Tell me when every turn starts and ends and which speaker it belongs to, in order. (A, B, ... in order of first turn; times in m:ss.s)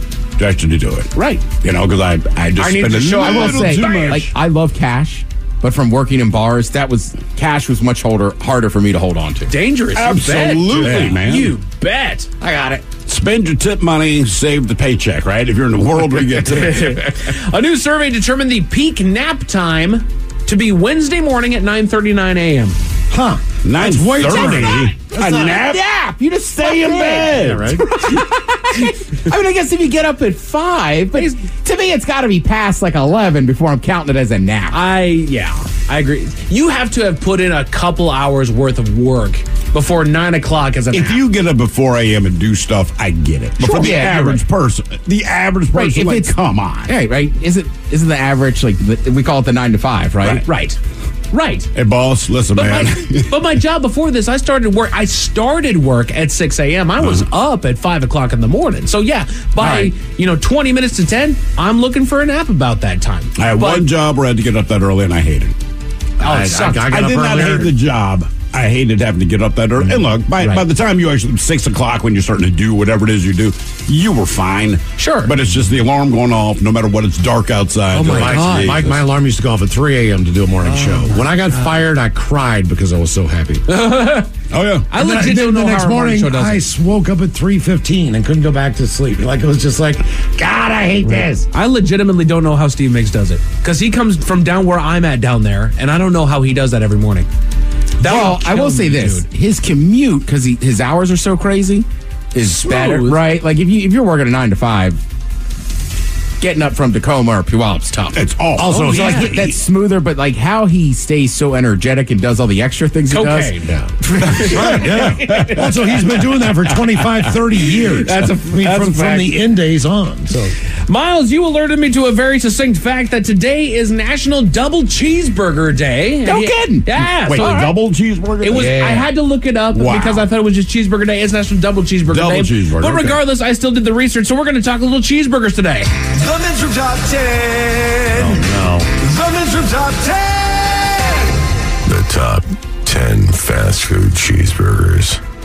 0:00.4-0:04.3 A
0:01.2-0:01.5 B
0:02.6-0:04.0 B
0:02.6-0:09.5 C
0:09.5-0:12.3 B
0:09.9-0:11.6 A
0:10.8-0:11.2 C
0:12.4-0:12.8 C
0:13.1-0:17.0 A
0:16.4-0:22.8 B
0:23.1-0:25.6 D
0:23.6-0:25.8 A
0:25.6-0:27.4 C
0:26.6-0:27.8 A
0:27.3-0:27.8 D
0:27.9-0:34.8 C
0:31.2-0:31.4 B
0:34.7-0:41.2 B
0:40.9-0:46.9 A
0:43.6-0:44.4 C
0:45.7-0:46.3 B
0:46.9-0:50.4 C
0:50.4-0:50.8 B
0:51.3-0:51.7 B
0:51.7-0:53.5 A
0:52.5-1:03.9 B
0:59.6-0:59.9 D
1:03.4-1:05.5 A
1:06.2-1:07.7 D
1:06.2-1:06.9 B
1:06.7-1:19.0 A
1:10.4-1:10.6 B
1:15.0-1:15.3 B
1:17.9-1:23.6 D
1:18.0-1:18.5 B
1:20.6-1:21.7 B
1:23.7-1:24.3 B
1:24.5-1:24.9 A
1:24.9-1:26.6 B
1:24.9-1:31.4 D
1:31.1-1:37.3 B
1:38.0-1:39.3 B
1:38.0-1:45.0 C
1:42.5-1:43.2 B
1:46.4-1:48.2 C
1:48.2-1:49.3 A
1:48.6-1:49.6 D
1:48.7-1:49.3 B
1:48.7-1:53.6 C
1:53.1-1:55.5 B
1:53.6-2:00.5 D
1:54.4-1:57.1 A
1:58.1-1:59.3 B
2:00.9-2:07.7 B
2:06.2-2:07.7 C
2:07.1-2:09.1 A
2:08.4-2:15.9 B
2:08.5-2:08.9 C
2:09.7-2:10.3 A
2:12.1-2:13.2 A
2:16.1-2:18.4 E
2:18.2-2:18.9 D
2:19.0-2:21.2 E
2:21.8-2:25.2 F